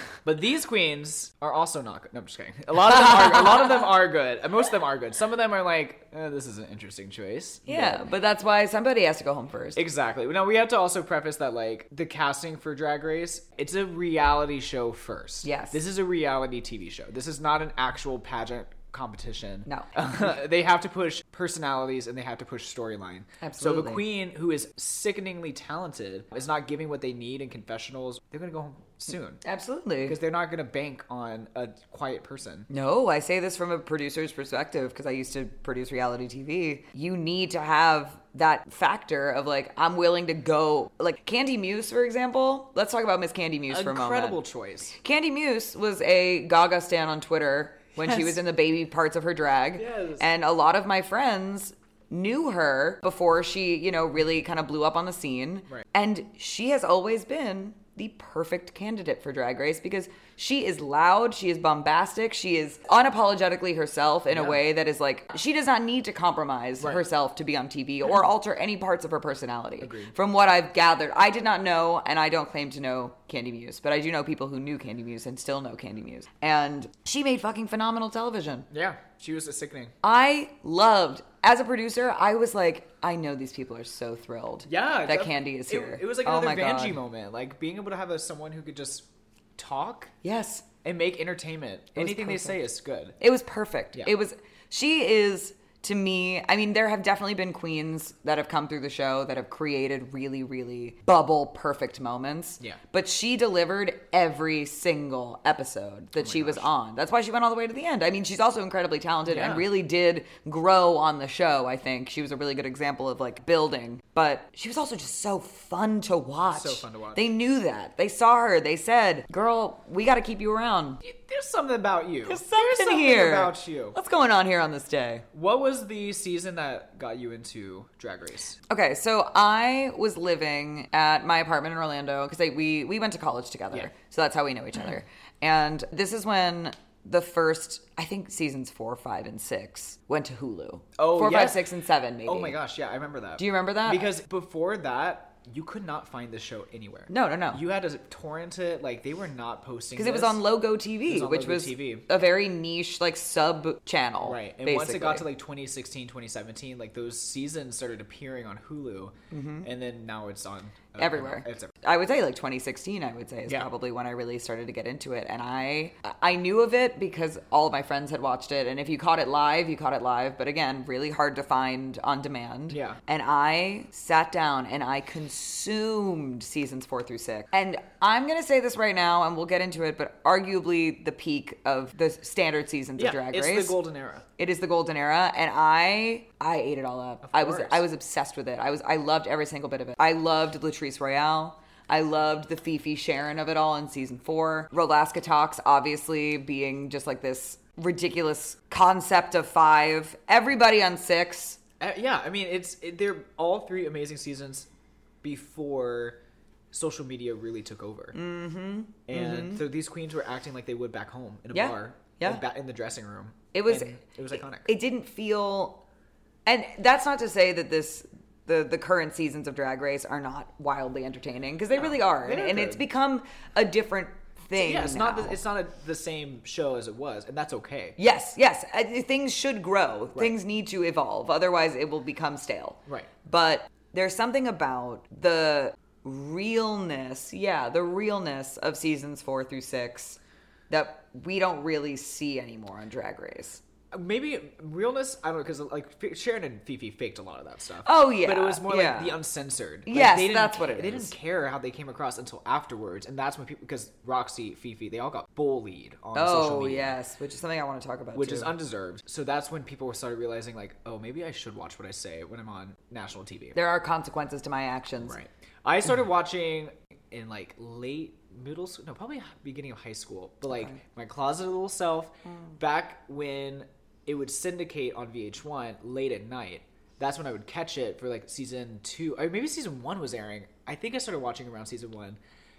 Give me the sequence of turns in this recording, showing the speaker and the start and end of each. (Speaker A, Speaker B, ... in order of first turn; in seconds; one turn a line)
Speaker A: 0.2-8.1
Speaker B: 7.7-9.8
Speaker A: 9.7-29.4
Speaker B: 15.4-15.8
Speaker B: 19.7-19.9
Speaker B: 23.4-24.0
Speaker B: 29.4-30.2
Speaker A: 30.0-32.7
Speaker B: 32.7-44.4
Speaker A: 43.7-44.9
Speaker B: 44.9-78.7
Speaker A: 48.0-48.4
Speaker A: 49.8-50.2
Speaker A: 64.3-64.6
Speaker A: 66.8-67.0
Speaker A: 69.8-70.1
Speaker A: 78.7-79.9
Speaker B: 80.0-87.0
Speaker A: 84.7-90.1
Speaker B: 90.2-90.7
Speaker A: 90.8-93.2
Speaker B: 92.0-92.6
Speaker B: 93.2-121.0
Speaker A: 106.2-106.7
Speaker A: 109.2-109.7
Speaker A: 116.5-117.2
Speaker A: 121.0-124.0
Speaker B: 122.2-125.2
Speaker A: 125.3-128.6
Speaker B: 128.7-142.6
Speaker A: 141.0-141.6
Speaker A: 142.2-150.4
Speaker B: 143.4-144.1
Speaker B: 147.1-147.6
Speaker B: 149.9-155.2
Speaker A: 151.1-152.1
Speaker A: 154.2-161.7
Speaker B: 159.3-159.7
Speaker B: 161.0-183.8
Speaker A: 172.7-173.0
Speaker A: 183.0-184.2
Speaker B: 184.4-201.6
Speaker A: 187.2-187.8
Speaker A: 201.8-204.7
Speaker A: 205.2-206.2
Speaker A: 206.7-208.2
Speaker B: 208.1-209.6
Speaker A: 209.1-214.7
Speaker B: 211.5-212.4
Speaker B: 213.5-215.8
Speaker B: 216.4-225.4
Speaker A: 221.7-222.8
Speaker A: 224.6-228.0
Speaker B: 228.0-240.2
Speaker B: 240.7-243.6
Speaker A: 243.9-257.0
Speaker B: 247.8-249.2
Speaker B: 249.9-251.1
Speaker B: 256.1-258.5
Speaker A: 258.1-263.6
Speaker B: 263.5-265.2
Speaker A: 265.0-282.2